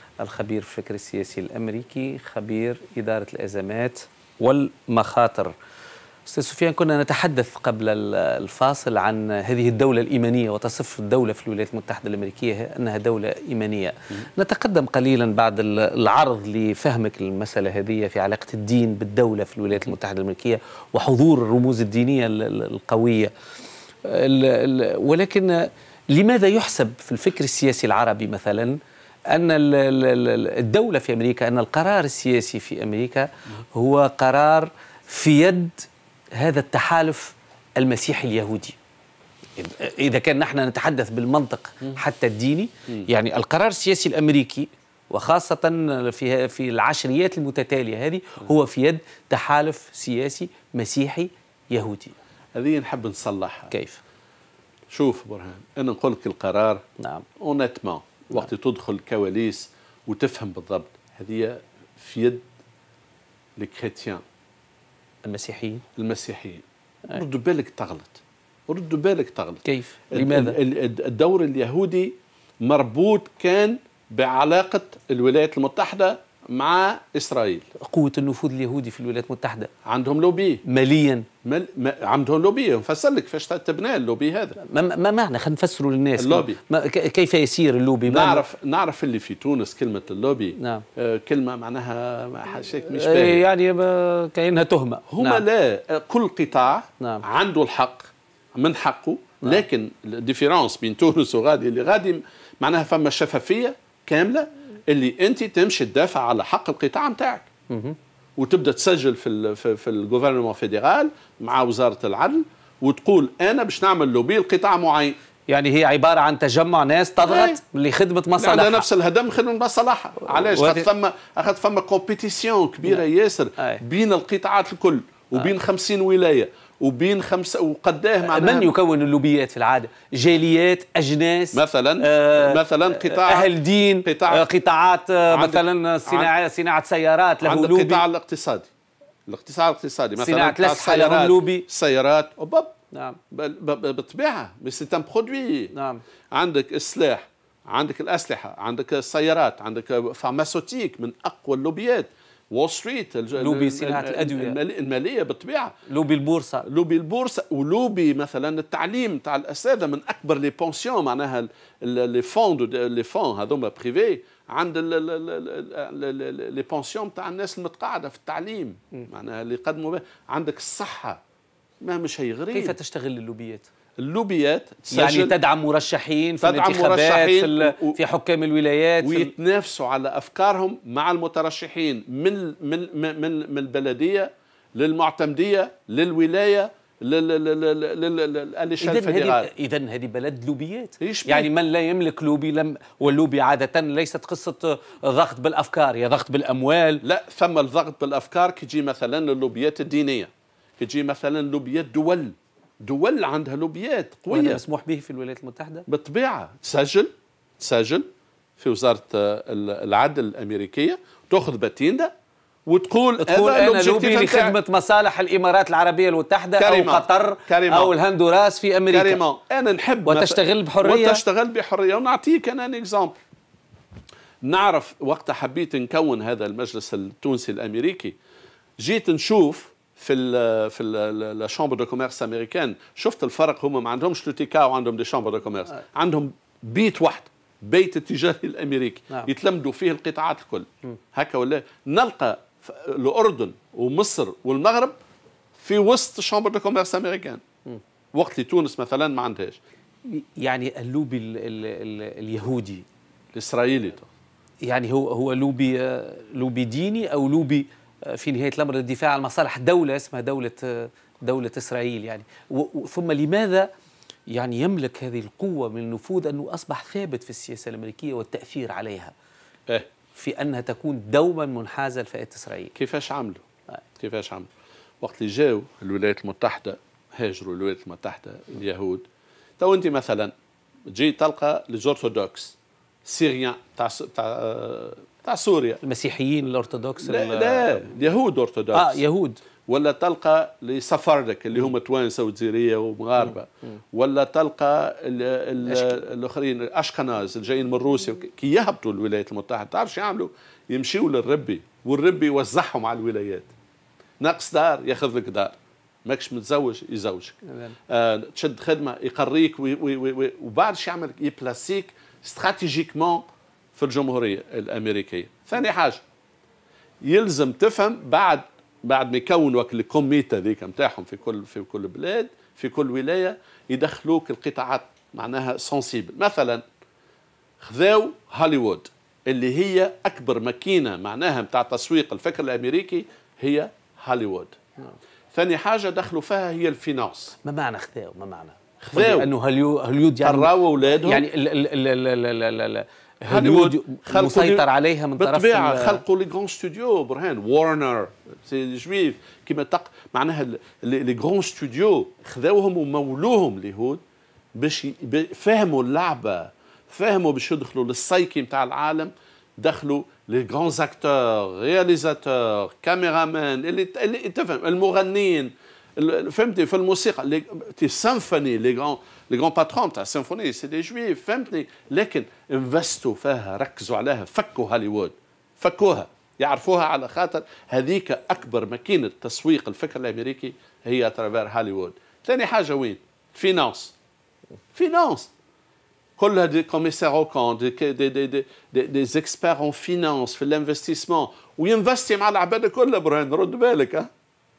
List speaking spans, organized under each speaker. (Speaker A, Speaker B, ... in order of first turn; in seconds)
Speaker A: 0.2-5.5, 6.3-23.3, 24.0-28.8, 29.3-38.8, 39.6-52.1, 53.7-54.0, 57.0-57.2, 65.2-65.8, 69.7-70.6, 77.8-79.7, 80.7-81.3, 84.6-88.4, 90.6-90.8, 92.9-95.4, 107.7-108.0, 115.5-118.8, 120.3-120.9, 128.2-138.0, 140.2-141.7, 142.9-143.2, 145.7-146.0, 153.4-154.6, 155.9-156.7, 172.5-173.7, 174.9-179.3, 188.8-197.0, 204.3-205.9, 213.2-219.2, 220.1-221.2, 250.1-252.8, 254.7-263.7, 264.3-269.1, 270.1-272.7, 285.8-287.8, 288.7-289.4, 307.5-307.8, 337.4-346.0
Speaker B: 52.5-53.7, 54.9-56.8, 57.4-62.5, 63.6-64.2, 66.0-77.7, 79.8-80.6, 81.4-84.6, 86.2-86.6, 88.1-93.4, 95.1-107.5, 108.4-115.2, 117.2-117.6, 118.4-128.7, 131.5-134.4, 135.3-136.3, 137.4-138.7, 139.3-142.7, 143.3-145.7, 146.3-155.7, 156.7-171.2, 171.8-172.8, 174.0-175.3, 176.4-178.0, 179.0-189.5, 191.0-191.5, 197.0-204.6, 205.9-208.1, 208.6-212.1, 212.7-214.6, 216.6-217.9, 218.9-223.2, 224.4-228.2, 228.8-244.9, 245.6-247.4, 248.2-249.6, 253.3-254.1, 272.8-273.4, 274.0-274.5, 275.0-279.0, 279.6-280.3, 280.9-285.8, 287.0-289.0, 289.7-303.5, 304.2-316.0, 317.0-326.6, 327.6-334.5, 335.3-337.4, 338.8-339.3, 340.2-341.3, 343.3-354.0, 354.6-383.9, 384.8-385.3, 386.2-394.1